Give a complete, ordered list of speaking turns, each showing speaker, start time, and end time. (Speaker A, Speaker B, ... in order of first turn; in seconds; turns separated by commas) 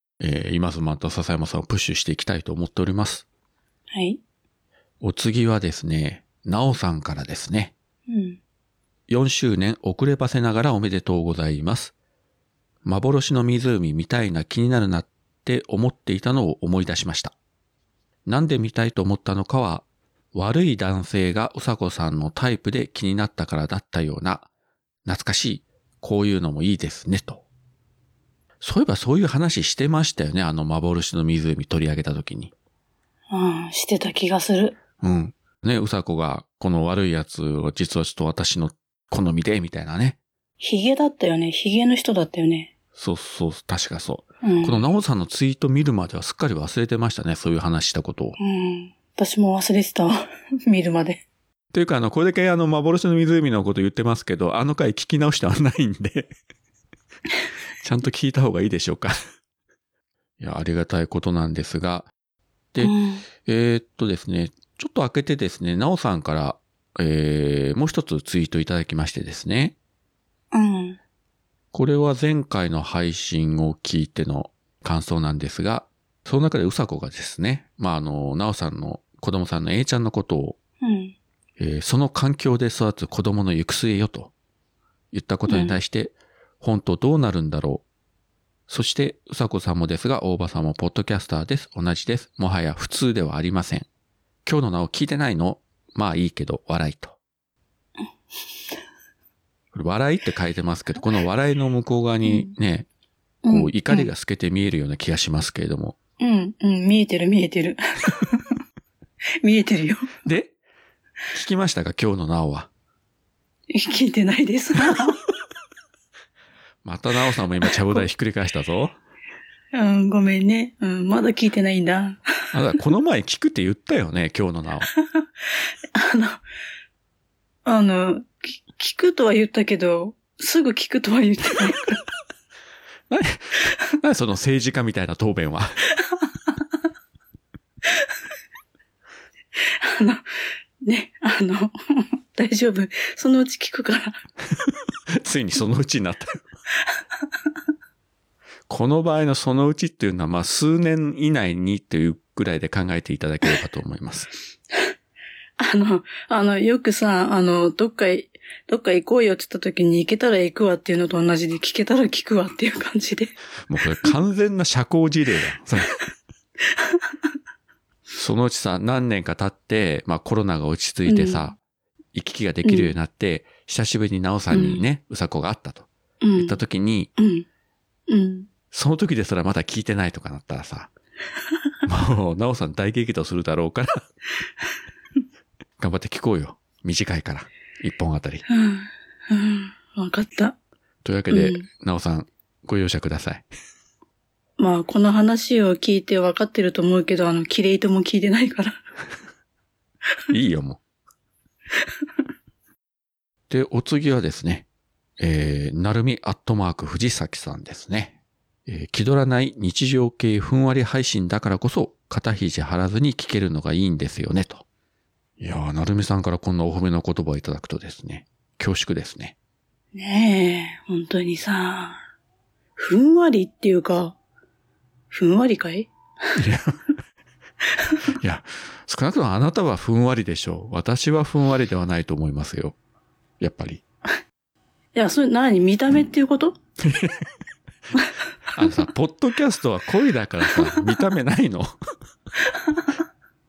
Speaker A: 0.2-3.2, Speaker B: 3.9-4.2, Speaker A: 5.0-7.7, Speaker B: 8.1-8.4, Speaker A: 9.1-11.9, Speaker A: 12.8-17.3, Speaker A: 18.2-24.5, Speaker A: 25.0-27.4, Speaker A: 28.6-32.5, Speaker B: 33.3-34.8, Speaker A: 35.0-40.2, Speaker B: 40.6-42.7, Speaker A: 43.0-48.4, Speaker B: 44.4-44.8, Speaker B: 48.4-51.2, Speaker A: 51.7-56.3, Speaker A: 57.8-59.1, Speaker A: 60.4-62.1, Speaker A: 62.7-69.7, Speaker B: 62.8-63.2, Speaker B: 70.5-71.0, Speaker A: 71.7-80.6, Speaker B: 80.8-81.2, Speaker A: 81.6-84.3, Speaker A: 85.1-87.8, Speaker B: 85.5-85.8, Speaker A: 88.7-93.9, Speaker A: 94.4-97.2, Speaker A: 99.7-102.9, Speaker B: 102.2-102.5, Speaker B: 103.4-104.1, Speaker A: 103.5-106.0, Speaker B: 106.2-108.5, Speaker B: 109.4-110.1, Speaker A: 110.2-110.5, Speaker A: 111.3-112.7, Speaker B: 113.7-115.2, Speaker A: 116.8-119.0, Speaker B: 119.7-122.2, Speaker A: 122.5-124.9, Speaker B: 125.9-126.4, Speaker B: 127.6-132.0, Speaker A: 133.1-135.8, Speaker B: 139.6-140.2, Speaker B: 140.8-144.2, Speaker A: 144.6-146.4, Speaker A: 148.7-154.3, Speaker B: 155.6-163.4, Speaker A: 163.7-165.9, Speaker A: 168.1-171.6, Speaker B: 171.1-171.4, Speaker A: 172.1-177.1, Speaker B: 172.6-172.9, Speaker B: 174.5-174.8, Speaker B: 176.2-176.6, Speaker B: 177.2-177.4, Speaker B: 178.1-178.5, Speaker A: 178.7-180.9, Speaker A: 181.8-184.0, Speaker A: 185.8-188.4, Speaker B: 188.5-190.6, Speaker A: 191.0-193.4, Speaker B: 191.3-191.7, Speaker B: 194.6-198.8, Speaker A: 200.3-200.8, Speaker A: 203.5-204.7, Speaker A: 205.2-208.1, Speaker A: 208.7-214.6, Speaker A: 215.4-219.3, Speaker B: 219.9-222.0, Speaker B: 222.8-224.2, Speaker B: 225.1-225.9, Speaker A: 226.3-226.8, Speaker A: 228.1-232.8, Speaker A: 233.4-233.8, Speaker B: 234.9-236.6, Speaker A: 236.8-237.2, Speaker A: 238.5-241.8, Speaker B: 242.7-242.9